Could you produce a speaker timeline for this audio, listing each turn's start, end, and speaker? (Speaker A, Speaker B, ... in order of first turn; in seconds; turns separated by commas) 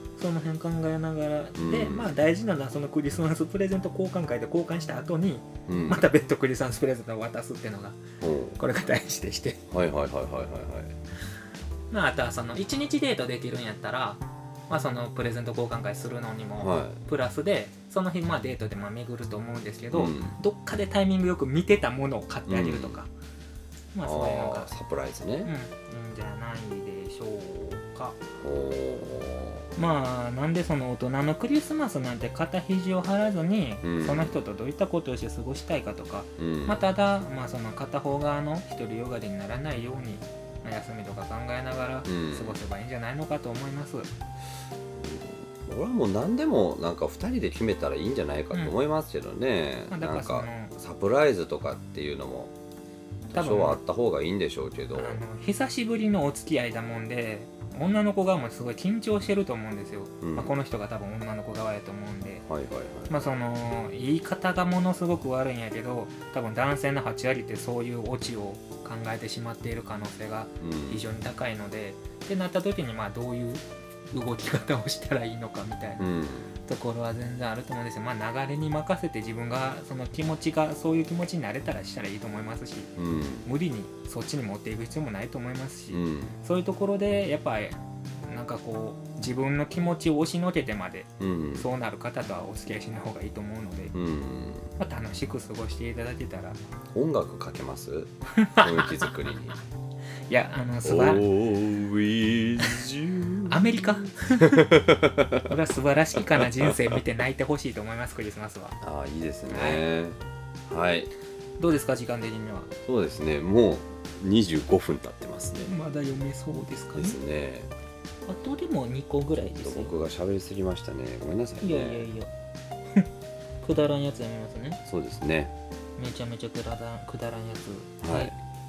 Speaker A: 0.2-8.0, Speaker B: 1.6-2.1, Speaker B: 5.7-6.0, Speaker B: 8.2-8.6, Speaker A: 8.6-9.6, Speaker B: 9.7-10.9, Speaker A: 11.9-23.1, Speaker B: 16.6-17.0, Speaker B: 19.9-20.3, Speaker B: 22.5-23.0, Speaker A: 23.9-24.7, Speaker B: 24.0-25.5, Speaker A: 25.4-28.2, Speaker B: 28.4-29.6, Speaker A: 29.8-44.1, Speaker B: 33.8-34.4, Speaker B: 36.4-36.8, Speaker B: 42.0-42.6, Speaker B: 44.9-52.5, Speaker A: 49.9-50.7, Speaker B: 53.3-55.2, Speaker A: 53.3-53.8, Speaker A: 54.9-62.4, Speaker B: 60.2-60.5, Speaker B: 62.5-63.3, Speaker A: 63.1-93.9, Speaker B: 70.6-71.0, Speaker B: 76.0-76.5, Speaker B: 83.0-83.5, Speaker B: 85.9-86.3, Speaker B: 91.2-91.7, Speaker B: 93.9-94.7, Speaker A: 94.8-96.6, Speaker B: 96.9-99.6, Speaker A: 98.3-99.1, Speaker A: 100.3-101.2, Speaker B: 100.8-105.5, Speaker A: 103.5-104.7, Speaker A: 105.5-108.8, Speaker B: 106.4-107.0, Speaker B: 108.8-110.2, Speaker A: 109.5-109.8, Speaker B: 110.7-111.1, Speaker A: 111.6-112.7, Speaker B: 112.8-115.7, Speaker A: 115.6-117.2, Speaker B: 116.9-117.7, Speaker A: 118.3-119.9, Speaker B: 119.6-122.1, Speaker A: 121.6-122.3, Speaker A: 123.6-124.8, Speaker B: 124.8-125.5, Speaker A: 126.0-128.3, Speaker B: 128.0-128.3